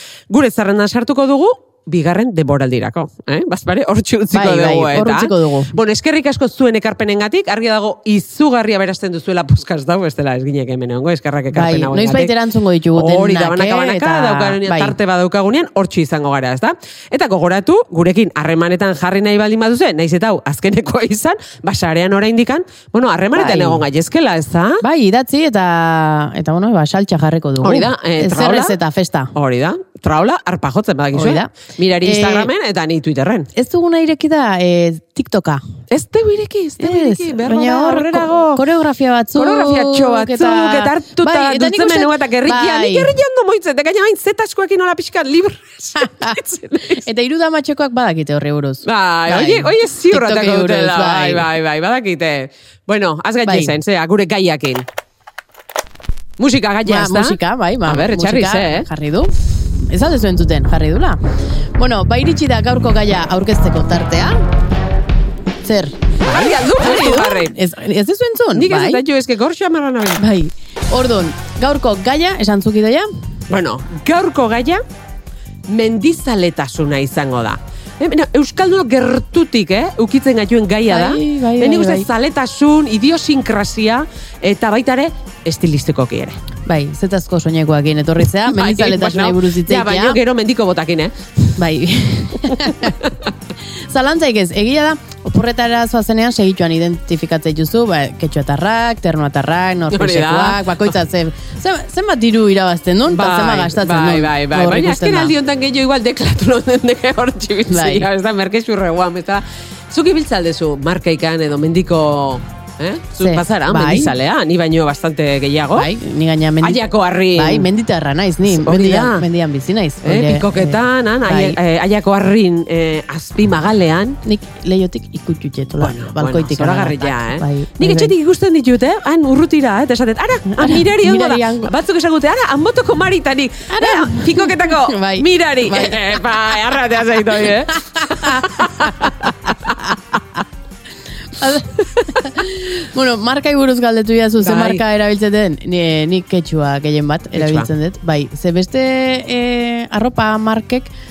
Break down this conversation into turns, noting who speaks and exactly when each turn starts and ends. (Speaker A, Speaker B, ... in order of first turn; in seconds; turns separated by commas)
Speaker A: 0.3-12.3, Speaker B: 4.3-5.8, Speaker B: 11.5-14.9, Speaker A: 12.9-24.8, Speaker B: 23.3-23.8, Speaker B: 24.8-29.3, Speaker A: 27.6-28.8, Speaker A: 29.3-33.5, Speaker B: 31.1-32.5, Speaker B: 33.5-35.6, Speaker A: 35.9-38.6, Speaker B: 36.8-43.1, Speaker A: 39.3-47.0, Speaker B: 46.0-51.5, Speaker A: 48.8-54.9, Speaker B: 53.4-53.7, Speaker A: 56.4-58.9, Speaker B: 56.8-61.2, Speaker B: 61.8-64.4, Speaker B: 65.6-69.0, Speaker A: 66.2-67.6, Speaker A: 68.5-70.2, Speaker B: 70.2-73.1, Speaker A: 73.5-74.8, Speaker A: 75.7-86.4, Speaker B: 80.9-82.1, Speaker B: 86.7-90.2, Speaker A: 88.4-91.6, Speaker B: 91.6-92.9, Speaker A: 92.5-93.3, Speaker B: 93.9-105.3, Speaker A: 99.9-100.9, Speaker A: 103.1-115.9, Speaker B: 107.7-108.1, Speaker B: 113.2-114.1, Speaker B: 115.8-116.8, Speaker A: 116.6-117.7, Speaker B: 117.3-121.6, Speaker A: 118.5-119.2, Speaker A: 120.0-124.2, Speaker B: 124.2-128.1, Speaker A: 125.8-139.5, Speaker B: 130.5-131.7, Speaker B: 133.7-136.0, Speaker B: 137.7-140.1, Speaker B: 141.3-150.9, Speaker A: 144.4-144.8, Speaker A: 147.3-147.7